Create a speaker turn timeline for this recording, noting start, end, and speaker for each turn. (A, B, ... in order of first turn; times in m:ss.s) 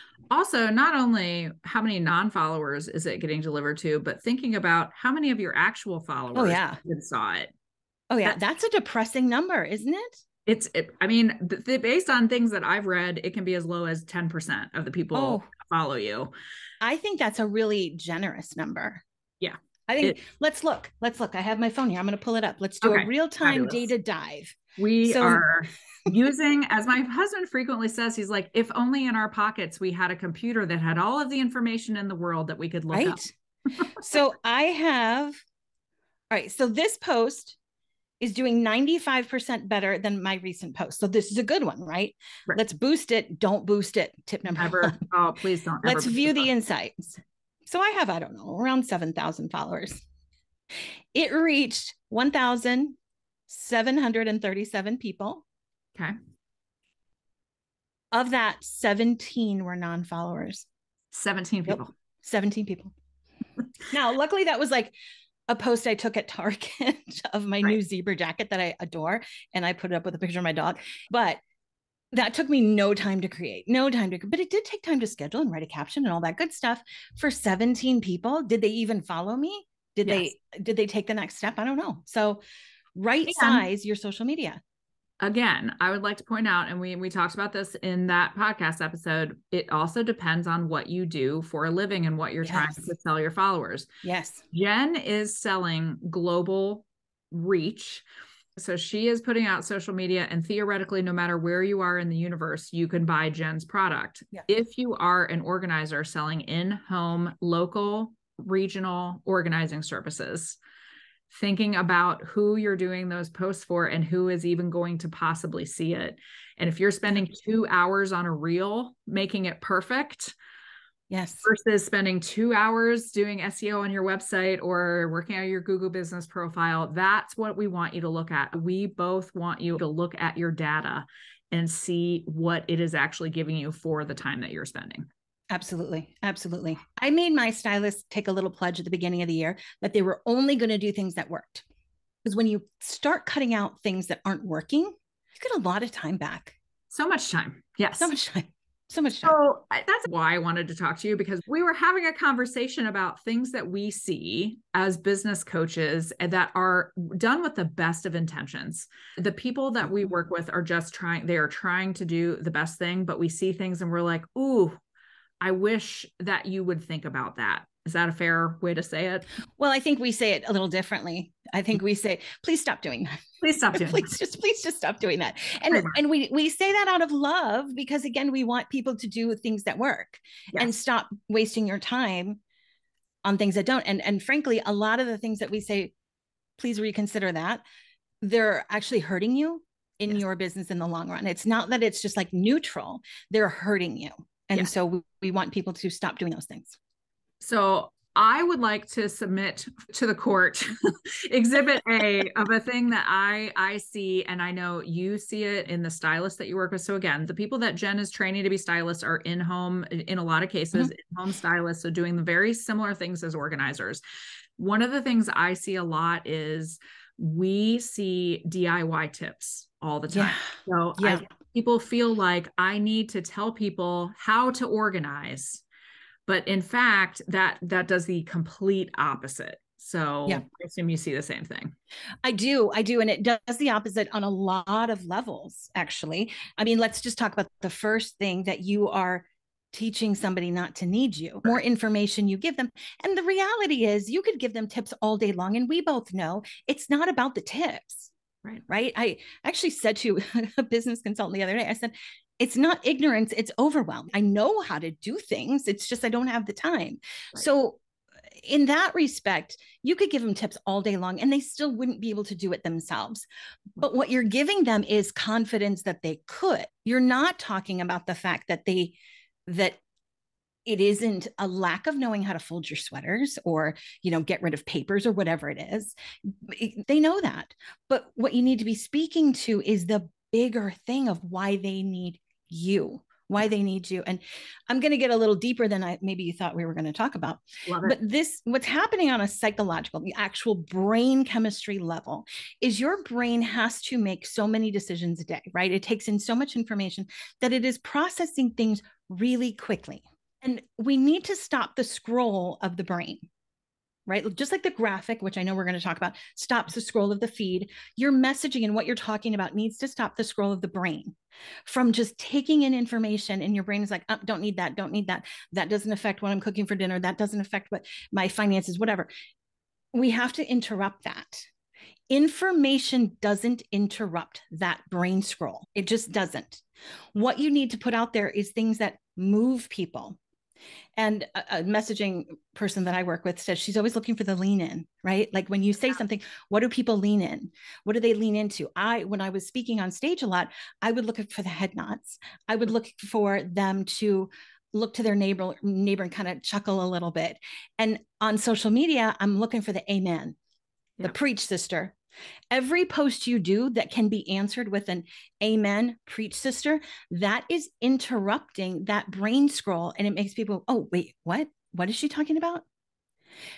0:00.3-0:07.5 A
0:06.3-0:06.8 B
0:08.1-0:10.2 B
0:10.4-0:16.3 A
0:15.1-0:15.5 B
0:16.8-0:19.0 B
0:19.4-0:20.2 A
0:19.9-0:25.4 B
0:22.8-0:23.8 A
0:24.8-0:33.2 A
0:32.9-0:33.3 B
0:34.0-0:35.4 B
0:36.3-0:37.6 B
0:38.2-0:45.0 B
0:44.5-0:46.5 A
0:45.8-0:50.0 B
0:51.1-0:53.0 B
0:53.5-0:55.4 B
0:58.1-1:00.6 B
1:01.1-1:01.9 A
1:01.7-1:02.9 B
1:03.9-1:04.9 B
1:05.5-1:11.4 B
1:12.1-1:22.4 B
1:22.9-1:24.6 B
1:23.3-1:23.6 A
1:25.2-1:33.9 A
1:32.4-1:32.8 B
1:34.0-1:34.4 B
1:34.5-1:38.0 A
1:38.6-1:50.6 A
1:51.3-2:00.3 A
2:01.1-2:01.5 B
2:01.4-2:15.0 A
2:15.5-2:21.6 B
2:22.2-2:26.6 B
2:26.9-2:28.1 A
2:28.0-2:29.4 B
2:29.2-2:44.8 A
2:45.4-2:49.2 A
2:49.6-3:02.4 B
2:53.4-2:54.1 A
2:55.7-2:56.0 A
3:03.2-3:05.9 B
3:06.6-3:07.6 B
3:08.2-3:16.8 B
3:17.4-3:34.0 A
3:34.6-3:45.6 A
3:40.1-3:41.2 B
3:46.3-3:51.7 A
3:52.2-4:08.1 B
4:08.7-4:17.8 B
4:18.4-4:23.2 B
4:23.8-4:29.8 B
4:30.6-5:03.3 B
4:47.6-4:48.0 A
5:04.1-5:19.1 B
5:19.9-5:21.5 B
5:22.1-5:26.6 B
5:27.1-5:30.2 B
5:31.0-5:50.4 B
5:51.0-5:51.9 B
5:52.5-6:02.6 B